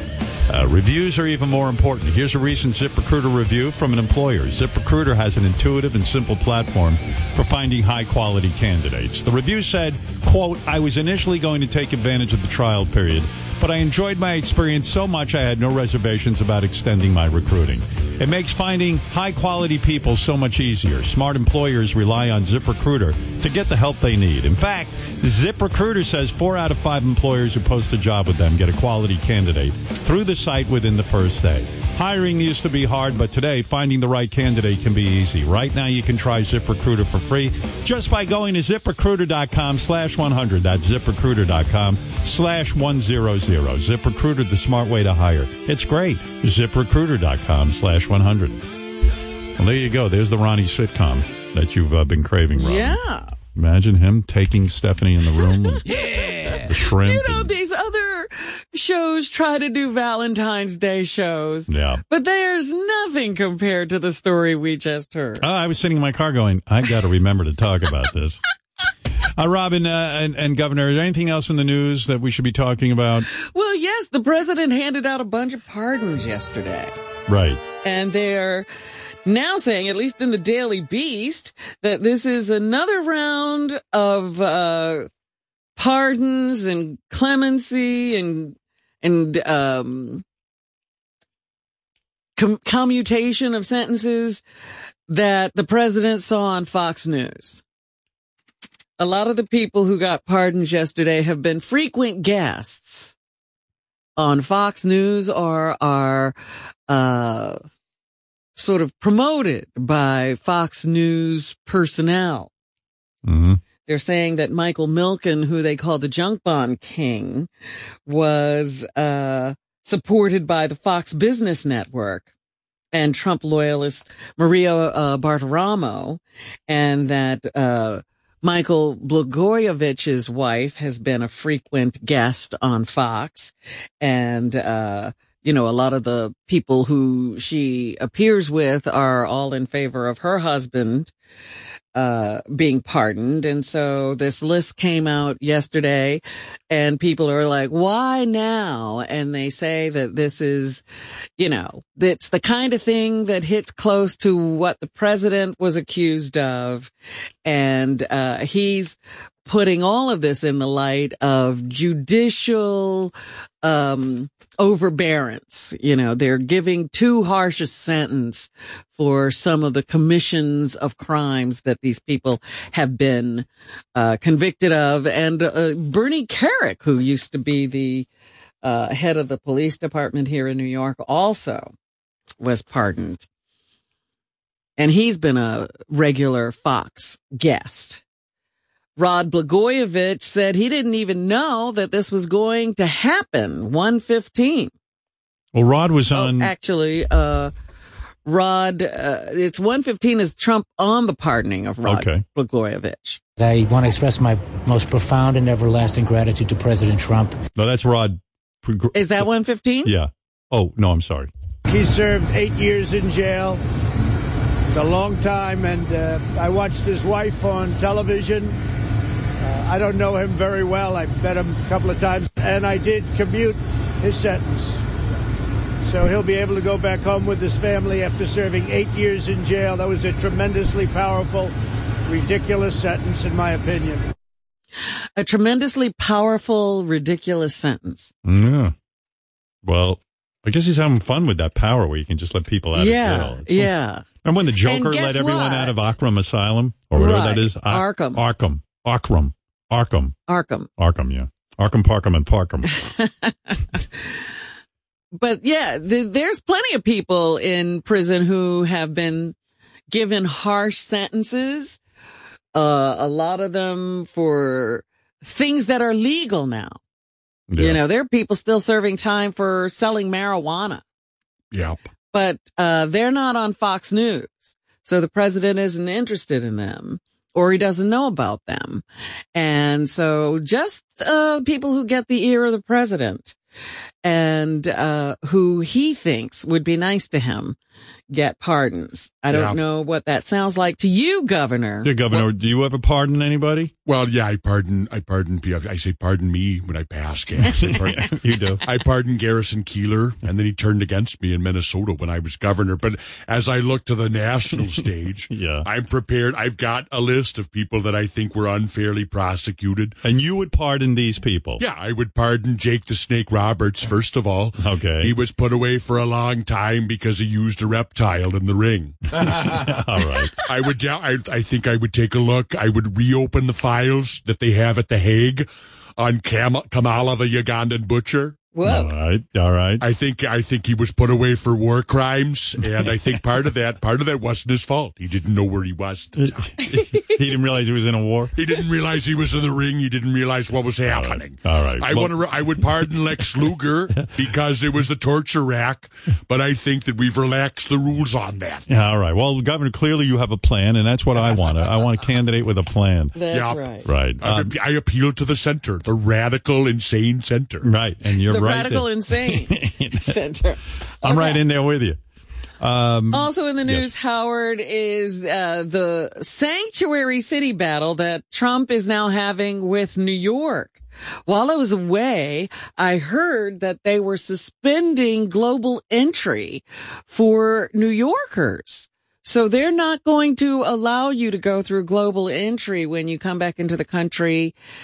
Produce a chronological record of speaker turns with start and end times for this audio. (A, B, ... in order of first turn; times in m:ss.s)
0:00.5-0:48.6 A
0:49.6-0:53.0 A
0:52.6-0:53.3 B
0:53.5-0:55.8 A
0:55.8-1:05.4 B
0:56.6-0:57.5 A
1:01.7-1:02.0 A
1:05.4-1:08.4 A
1:09.2-1:13.3 A
1:13.3-1:16.9 B
1:17.3-1:17.6 A
1:17.8-1:18.7 B
1:19.2-1:25.1 B
1:25.8-1:30.2 B
1:32.4-1:34.4 B
1:35.1-1:37.6 B
1:39.0-1:43.1 B
1:44.2-1:46.3 B
1:46.9-1:47.6 B
1:48.6-1:52.5 B
1:53.2-1:53.6 A
1:53.8-1:57.5 B
1:58.1-2:02.3 B
2:02.9-2:21.1 B
2:21.9-2:30.8 B
2:31.4-2:36.9 B
2:37.4-2:58.1 B
2:58.6-3:01.7 B
3:02.4-3:03.2 B
3:04.8-3:08.0 B
3:09.0-3:14.7 B
3:15.5-3:16.5 A
3:16.1-3:17.5 B
3:18.2-3:23.2 B
3:21.8-3:22.2 A
3:23.4-3:27.4 C
3:27.5-3:29.2 A
3:28.9-3:29.9 B
3:29.8-3:31.3 A
3:31.6-3:33.6 D
3:34.7-3:38.6 D
3:39.4-3:44.8 D
3:45.8-3:51.5 D
3:52.0-3:54.1 D
3:55.2-3:58.1 B
3:58.2-3:58.7 A
3:59.6-4:10.1 A
4:02.7-4:04.0 B
4:04.6-4:05.9 B
4:06.9-4:08.2 B
4:10.3-4:10.7 B
4:10.8-4:12.7 A
4:12.7-4:14.1 B
4:15.1-4:19.4 B
4:19.9-4:21.8 B
4:22.5-4:26.8 B
4:27.5-4:27.8 A
4:27.6-4:30.8 B
4:31.5-4:31.8 E
4:32.1-4:43.4 B
4:44.0-4:47.6 B
4:48.1-4:51.9 B
4:49.3-4:49.6 E
4:51.8-4:53.7 A
4:53.8-5:10.0 E
4:57.4-4:58.6 A
5:05.3-5:05.6 A
5:10.0-5:11.6 A
5:11.6-5:19.4 E
5:14.6-5:15.1 A
5:19.4-5:20.3 A
5:20.4-5:28.4 E
5:28.5-5:28.9 B
5:28.6-5:29.8 A
5:29.8-5:36.5 E
5:36.2-5:38.3 A
5:36.7-5:37.0 B
5:38.3-5:48.6 E
5:40.9-5:43.2 A
5:48.7-5:53.2 A
5:53.1-5:53.9 B
5:53.3-5:53.6 E
5:53.8-5:54.5 A
5:54.2-5:57.7 E
5:57.6-6:00.2 A
5:58.3-6:01.4 B
6:01.0-6:02.0 A
6:02.6-6:03.9 A
6:03.1-6:24.5 B